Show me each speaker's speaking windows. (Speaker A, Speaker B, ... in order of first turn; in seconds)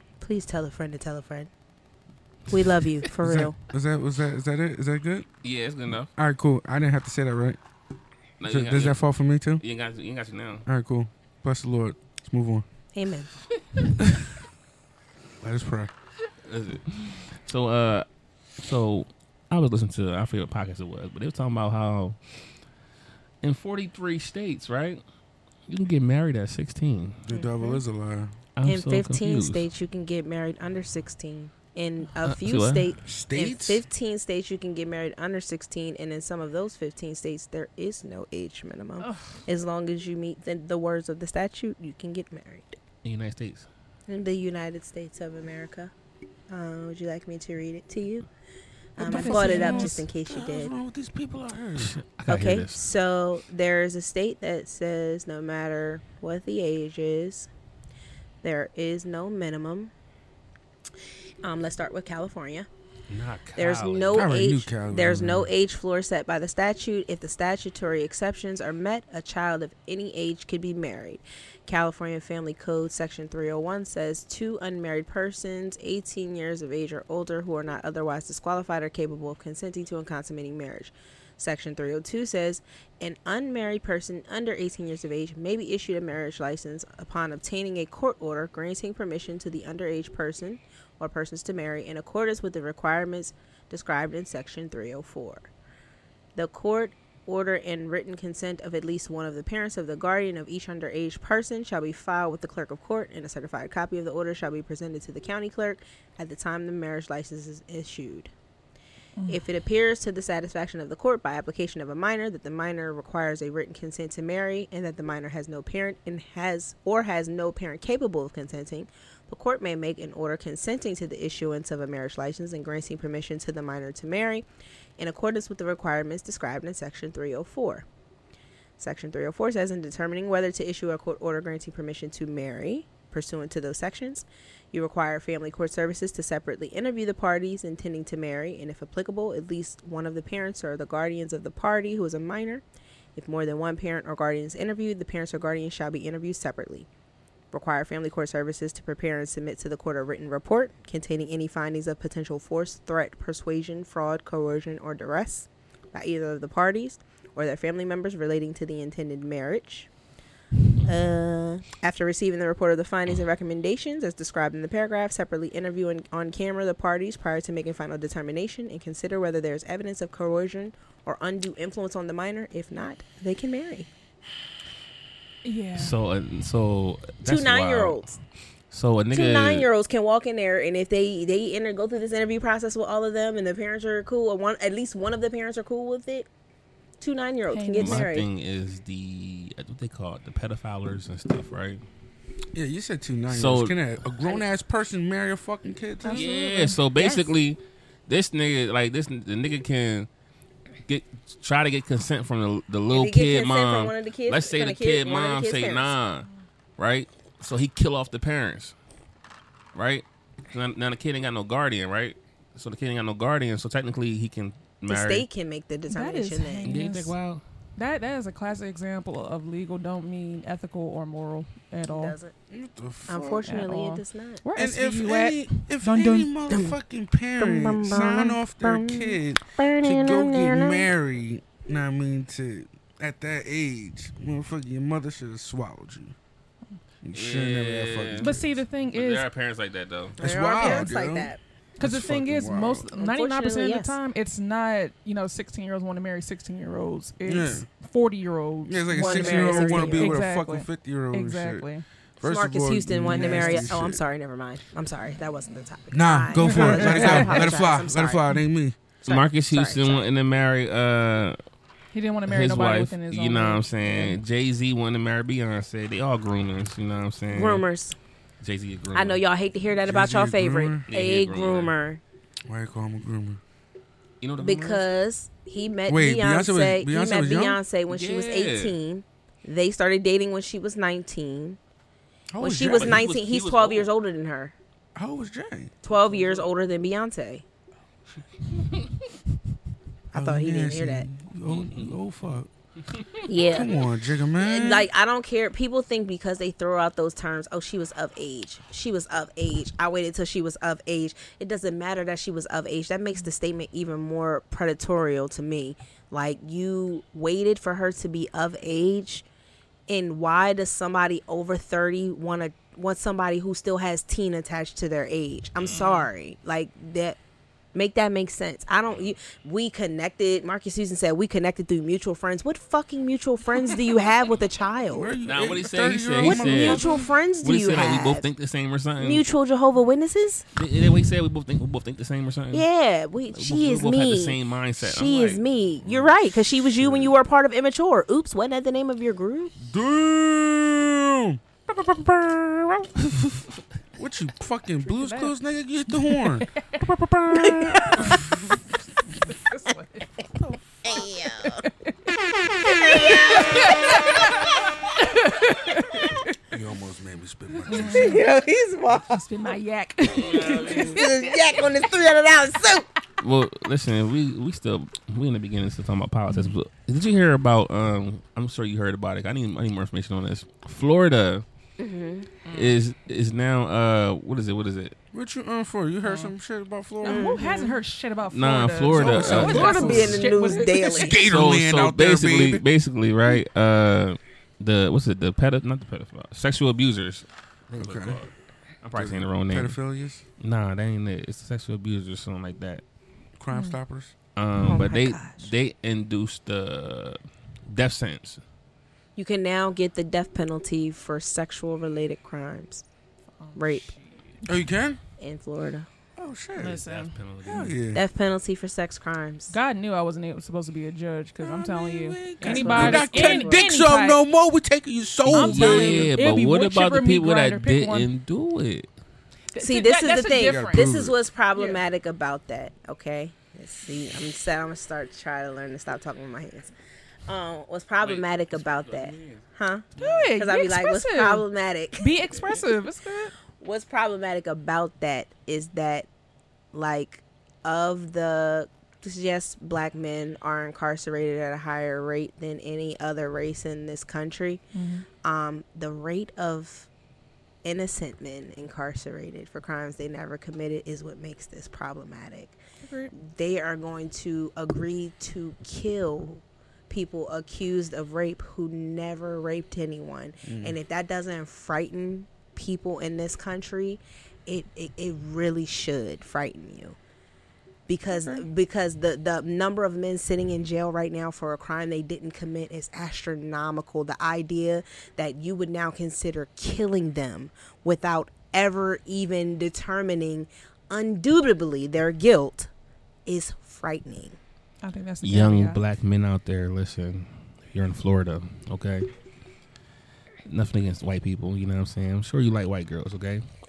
Speaker A: 0.2-1.5, 2.5-3.5, 12.9-13.3, 27.3-27.7, 28.6-42.8, 44.1-45.9, 46.5-48.3, 49.0-50.7, 52.3-57.5, 58.4-59.9, 61.4-62.7, 63.5-95.5, 96.3-108.3, 109.3-124.4, 125.0-127.8, 128.8-142.6, 143.2-146.9, 147.5-159.9, 160.8-173.9, 177.2-178.2, 179.1-186.3, 187.0-188.3, 196.9-197.3, 202.9-205.9, 214.9-216.8, 221.9-222.3, 223.1-224.4, 226.5-226.8, 227.4-230.9, 240.2-241.4, 242.9-243.9, 248.9-250.2, 252.2-258.2, 259.1-260.1, 267.3-268.0, 268.9-272.0, 274.4-281.6, 282.4-284.5, 285.8-287.4, 290.1-291.1, 293.3-293.8, 294.4-309.2, 309.9-317.2, 317.7-325.1, 326.2-328.3, 329.0-330.4, 332.5-339.5, 347.4-348.1, 350.8-351.6, 352.6-354.5, 357.9-359.2, 360.6-362.9, 371.8-372.3, 377.0-377.8, 379.3-381.2, 394.7-395.4, 399.1-402.8, 403.6-403.9, 405.2-405.9, 407.9-409.5, 412.4-413.8, 419.6-426.7, 427.3-432.3, 433.6-436.1, 436.7-444.6, 445.2-446.9, 447.6-452.6, 453.2-467.0, 467.9-482.7, 483.2-484.4
Speaker B: 3.2-5.3, 6.2-7.6, 8.4-9.6, 10.7-12.6, 14.0-14.2, 15.4-15.9, 27.2-28.3, 33.0-33.9, 49.0-52.0, 64.1-65.5, 192.5-196.3, 222.5-223.4, 224.5-236.1, 237.0-238.6, 240.2-242.9, 247.2-247.7, 248.7-251.7, 252.2-254.0, 255.9-258.8, 269.8-270.8, 272.5-273.4, 275.9-277.6, 282.3-283.1, 284.9-285.7, 290.1-292.5, 293.4-294.9, 324.9-327.0, 335.8-336.1, 336.8-337.1, 339.6-343.0, 343.9-348.2, 356.5-358.2, 375.1-377.4, 378.9-382.6, 387.8-388.2, 388.9-390.2, 393.4-394.1, 404.4-405.0, 406.1-406.8, 407.4-408.0, 411.4-416.1, 420.4-421.2, 460.4-460.8
Speaker C: 5.4-6.1, 8.4-9.0, 9.6-10.6, 16.4-18.1, 18.6-22.2, 23.4-25.0, 25.7-27.2, 28.6-29.6, 32.2-32.9, 43.0-43.7, 51.8-52.8, 63.1-64.3, 175.8-178.1, 178.7-179.7, 187.8-191.8, 193.3-193.8, 196.1-200.1, 200.9-206.3, 206.8-208.7, 209.7-215.2, 216.6-217.4, 237.1-238.3, 238.9-240.2, 259.1-261.4, 262.3-267.6, 268.4-269.2, 270.9-271.7, 274.2-274.8, 277.9-278.8, 282.7-283.9, 291.4-291.9, 292.9-293.2, 325.2-326.8, 327.4-329.2, 330.6-332.6, 333.3-335.4, 343.1-343.4, 360.1-361.0, 363.2-371.4, 372.5-374.9, 378.3-380.1, 381.2-388.3, 388.8-389.8, 390.4-392.8, 394.4-398.4, 406.7-407.8, 415.3-418.9, 428.0-429.4, 429.9-430.3, 485.2-489.1, 490.5-493.4
Speaker D: 49.0-50.0, 109.2-109.4, 175.4-175.9, 187.5-188.1, 196.0-196.8, 215.9-217.1, 217.8-222.2, 223.4-226.3, 238.2-239.3, 241.8-251.8, 253.1-253.7, 256.4-257.4, 261.9-263.7, 315.8-316.0, 344.9-345.3, 346.0-346.9, 347.5-348.2, 349.2-350.1, 350.9-351.9, 352.7-356.3, 357.6-358.2, 359.1-361.6, 372.4-372.8, 376.0-376.3, 377.0-381.2, 403.4-404.1, 406.6-407.7, 409.5-414.2, 415.3-418.1, 419.5-420.9, 421.5-421.8, 430.0-431.4, 432.0-433.3, 444.7-445.1, 452.8-453.1, 468.1-468.4, 484.8-485.8